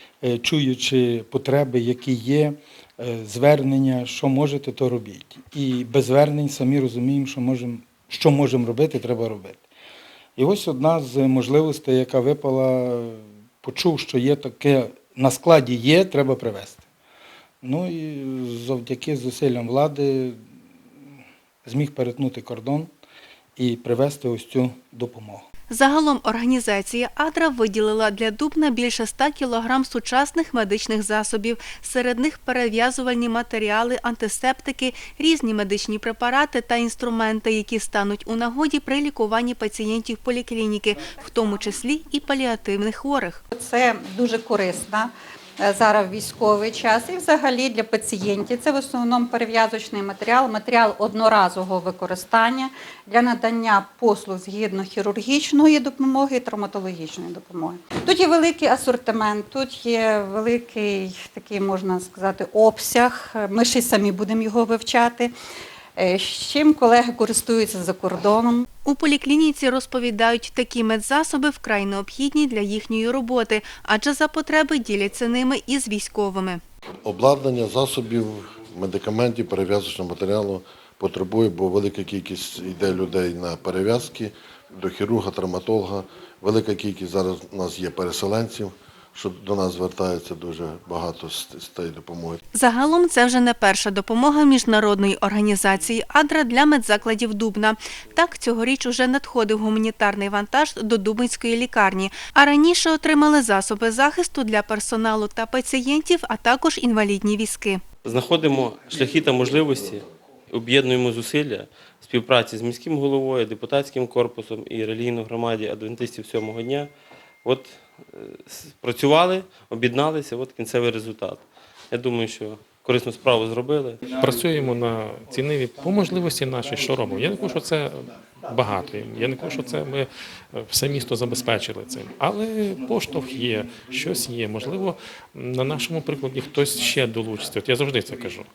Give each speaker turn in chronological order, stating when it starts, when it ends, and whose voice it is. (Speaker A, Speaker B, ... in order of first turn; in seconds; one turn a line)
Speaker A: 0.2-9.6
Speaker A: 10.3-16.8
Speaker A: 17.6-20.4
Speaker A: 21.6-22.9
Speaker A: 23.6-25.4
Speaker B: 25.7-43.4
Speaker C: 43.5-65.3
Speaker C: 66.0-68.7
Speaker B: 68.8-76.6
Speaker D: 77.0-92.4
Speaker B: 92.5-107.8
Speaker E: 108.0-116.9
Speaker E: 117.4-124.0
Speaker F: 124.1-138.5